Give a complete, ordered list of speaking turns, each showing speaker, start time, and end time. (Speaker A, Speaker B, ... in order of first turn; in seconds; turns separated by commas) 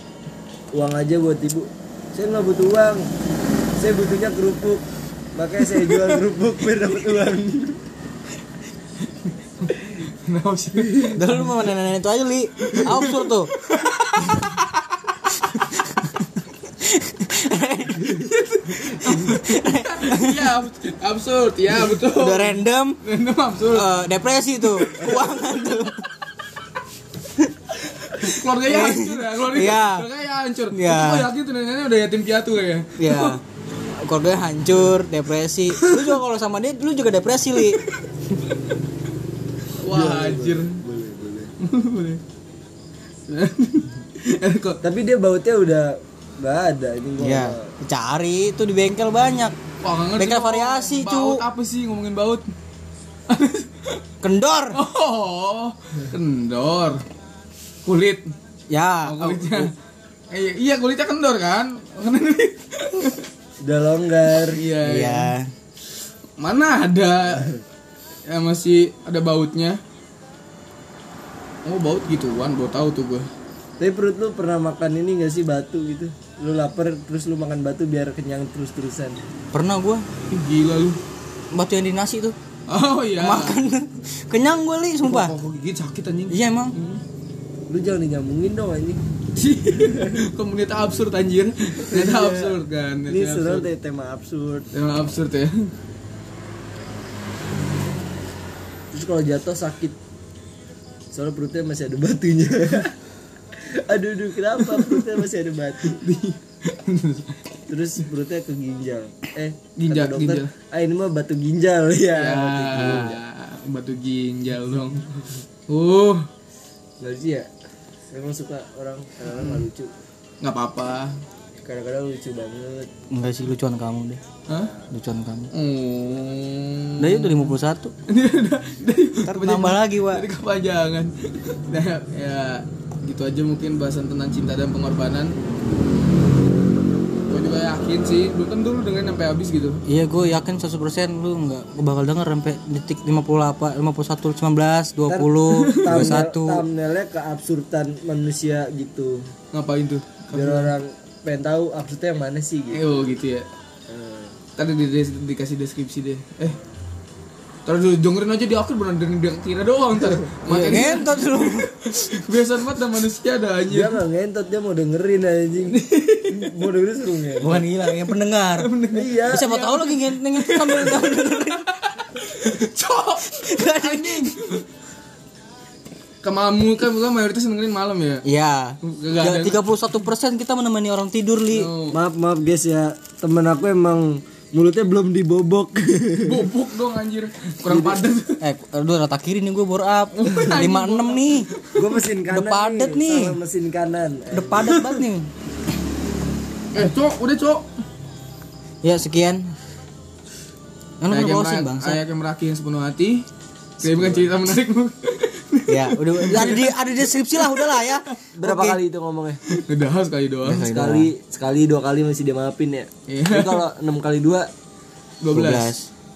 Speaker A: 0.7-3.1, Speaker A: 3.8-4.8, Speaker A: 5.4-7.8, Speaker B: 9.0-11.5, Speaker C: 11.2-13.5, Speaker B: 12.6-14.9, Speaker C: 15.4-16.2, Speaker C: 16.8-20.5, Speaker B: 18.0-23.9, Speaker C: 21.9-23.0, Speaker C: 23.7-26.1, Speaker B: 24.6-25.8, Speaker B: 27.9-33.4, Speaker C: 28.2-30.1, Speaker C: 30.7-31.3, Speaker C: 33.0-33.4, Speaker C: 34.0-37.9, Speaker B: 35.8-36.2, Speaker B: 37.6-38.2, Speaker B: 39.8-40.8, Speaker A: 39.8-41.5, Speaker B: 41.6-42.2, Speaker B: 43.2-44.8, Speaker A: 44.8-47.7, Speaker C: 47.2-49.6, Speaker B: 49.8-52.5, Speaker C: 50.2-51.4, Speaker B: 53.3-54.0, Speaker C: 54.2-54.8, Speaker B: 54.7-57.0, Speaker B: 57.8-58.3, Speaker C: 58.7-59.7, Speaker B: 59.0-59.7, Speaker B: 60.3-63.3, Speaker A: 63.6-64.6, Speaker B: 64.3-65.3, Speaker C: 64.8-65.5, Speaker B: 66.4-67.5, Speaker B: 68.3-69.8, Speaker B: 71.7-73.3, Speaker A: 73.8-79.2, Speaker C: 79.5-80.1, Speaker B: 80.3-81.0, Speaker C: 81.5-82.4, Speaker B: 82.7-83.6, Speaker C: 83.2-85.3, Speaker B: 85.0-87.0, Speaker C: 86.3-86.8, Speaker A: 87.7-89.0, Speaker B: 89.4-93.7, Speaker A: 89.9-90.2, Speaker A: 91.9-92.6, Speaker A: 93.1-94.7, Speaker B: 94.7-95.7, Speaker A: 98.9-100.0, Speaker A: 101.1-103.0, Speaker A: 103.6-106.0, Speaker B: 104.6-105.2, Speaker B: 105.8-107.4, Speaker A: 107.7-113.2, Speaker B: 109.8-110.5, Speaker B: 112.1-116.3, Speaker C: 112.8-113.1, Speaker A: 117.0-117.5, Speaker A: 118.1-119.9, Speaker B: 119.3-119.7, Speaker B: 120.4-121.2, Speaker A: 121.6-122.9, Speaker C: 123.1-124.2, Speaker B: 124.5-124.7, Speaker C: 124.9-125.5, Speaker B: 125.5-135.4, Speaker C: 127.0-127.9, Speaker C: 129.2-130.3, Speaker B: 137.3-139.8, Speaker C: 139.9-146.7, Speaker A: 145.1-149.3, Speaker B: 145.5-146.2, Speaker B: 149.5-150.7, Speaker A: 150.3-153.2, Speaker B: 152.7-153.5, Speaker A: 153.9-154.4, Speaker B: 154.6-156.6, Speaker B: 157.7-164.0, Speaker C: 160.5-161.8, Speaker A: 163.7-167.7, Speaker B: 165.7-166.6, Speaker C: 167.4-168.7, Speaker B: 168.6-174.7, Speaker A: 168.9-169.5, Speaker C: 169.3-171.7, Speaker C: 173.3-174.3, Speaker B: 176.2-178.2, Speaker C: 178.2-181.7, Speaker B: 178.8-179.8, Speaker B: 181.5-182.0, Speaker A: 181.9-186.5, Speaker B: 186.2-188.4, Speaker A: 187.7-188.1, Speaker C: 188.4-191.5, Speaker B: 190.2-192.0, Speaker A: 191.8-194.8, Speaker C: 192.3-193.4, Speaker C: 194.3-195.3, Speaker B: 194.6-195.0, Speaker B: 196.7-197.7, Speaker C: 198.8-199.5, Speaker C: 201.0-202.0, Speaker B: 201.1-203.3, Speaker B: 203.8-208.1, Speaker A: 203.8-204.4, Speaker C: 205.7-208.8, Speaker A: 208.3-209.4, Speaker B: 209.5-210.8, Speaker C: 210.4-211.1, Speaker A: 210.7-214.5, Speaker B: 213.1-213.7, Speaker B: 215.2-215.7, Speaker C: 215.3-215.9